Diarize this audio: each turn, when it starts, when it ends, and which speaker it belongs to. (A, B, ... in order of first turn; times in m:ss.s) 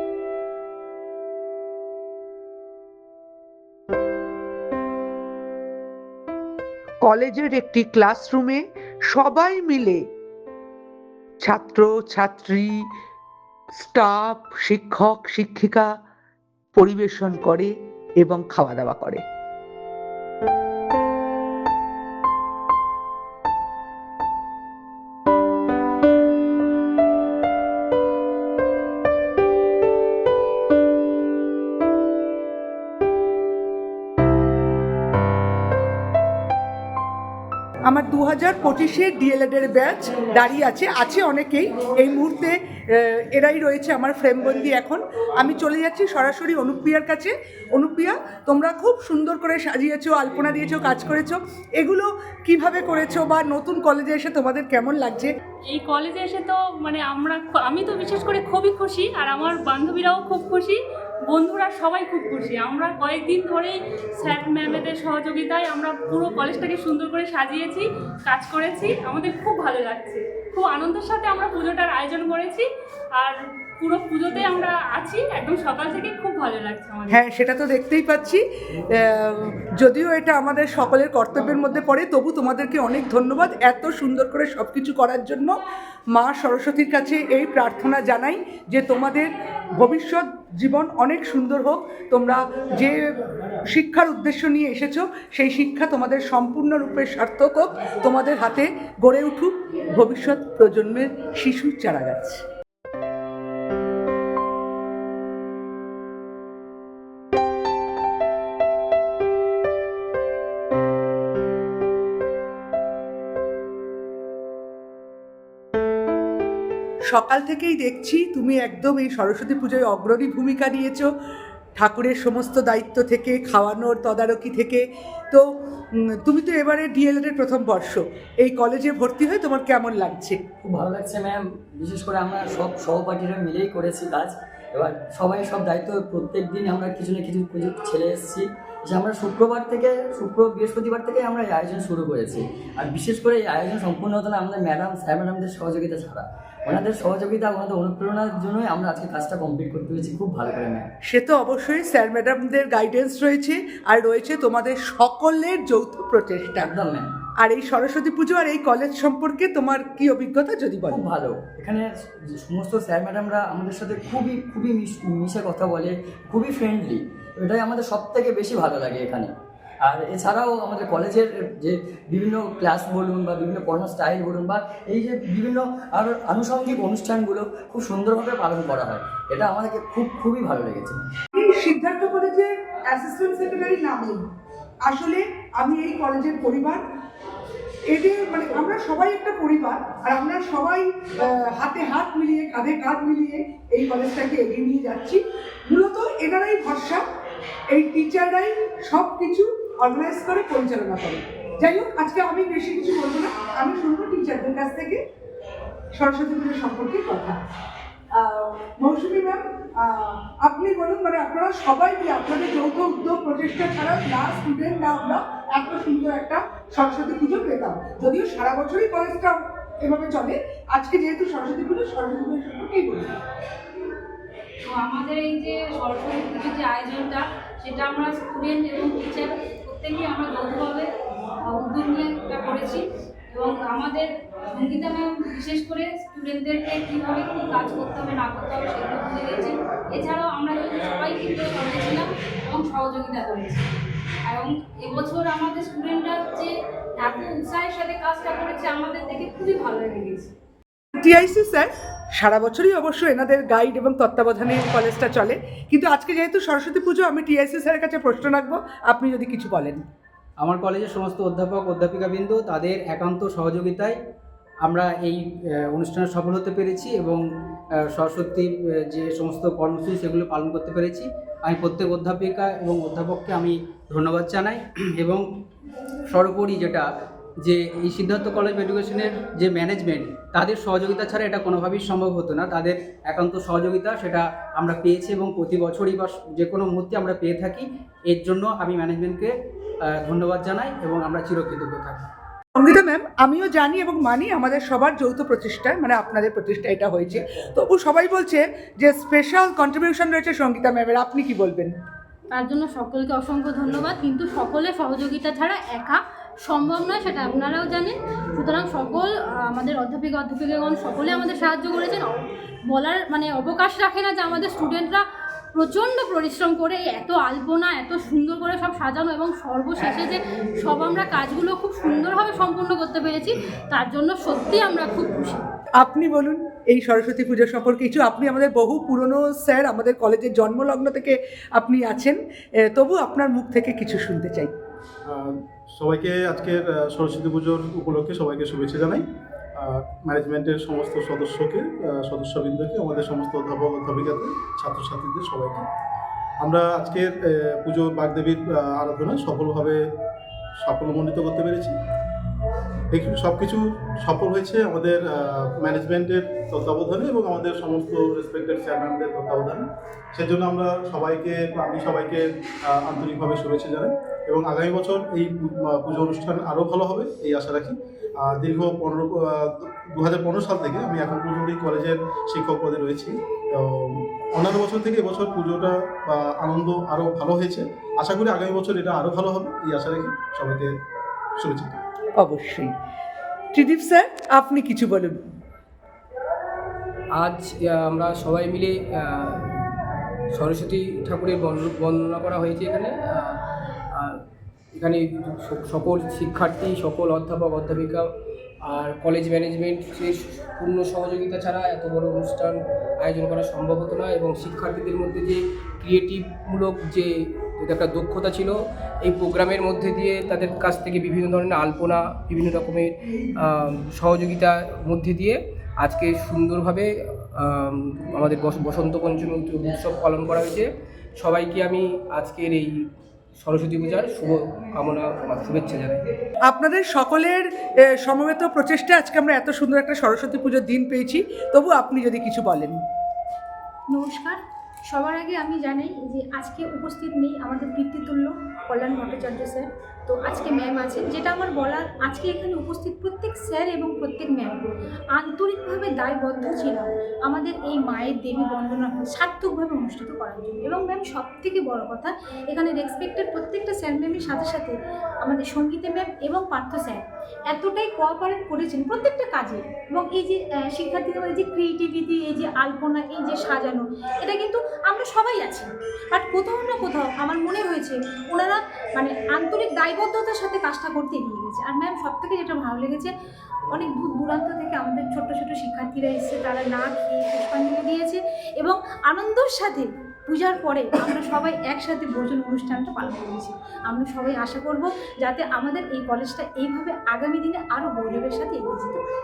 0:07.0-0:10.0 A
0:11.4-0:12.9 A
0:13.8-0:15.9 A
0:16.8-0:19.2 A
0:37.9-0:55.3 A
0:55.6-1:17.2 B
1:17.1-1:25.6 A
1:26.1-1:42.4 A
1:57.1-2:01.1 A
2:01.8-2:05.5 A
2:06.1-2:10.4 A
2:10.6-2:30.9 C
2:31.0-2:36.7 A
2:36.6-2:37.1 C
2:37.4-2:41.0 A
2:40.9-3:01.0 C
3:01.4-3:04.2 A
3:04.8-3:06.8 A
3:07.9-3:17.0 A
3:17.7-3:25.0 A
3:25.9-3:27.4 A
3:28.1-3:43.1 A
3:44.7-3:50.9 D
3:51.4-4:03.6 D
4:04.2-4:10.3 D
4:11.0-4:19.8 A
4:20.5-4:23.9 E
4:24.7-4:25.1 E
4:25.8-4:27.2 E
4:28.0-4:35.2 E
4:36.1-4:36.8 E
4:37.5-4:49.2 E
4:50.1-4:52.0 E
4:52.5-5:01.8 A
5:02.3-5:25.4 D
5:25.8-5:34.5 A
5:35.0-5:45.7 F
5:46.4-5:49.8 F
5:50.6-5:51.8 F
5:52.9-6:20.7 F
6:21.4-6:21.8 F
6:22.2-6:22.7 A
6:23.5-6:25.2 A
6:27.2-6:29.4 G
6:30.3-6:33.4 G
6:34.8-6:38.1 G
6:38.6-7:02.8 G
7:03.4-7:06.0 G
7:06.5-7:12.8 A
7:13.9-7:53.1 H
7:53.7-8:09.0 H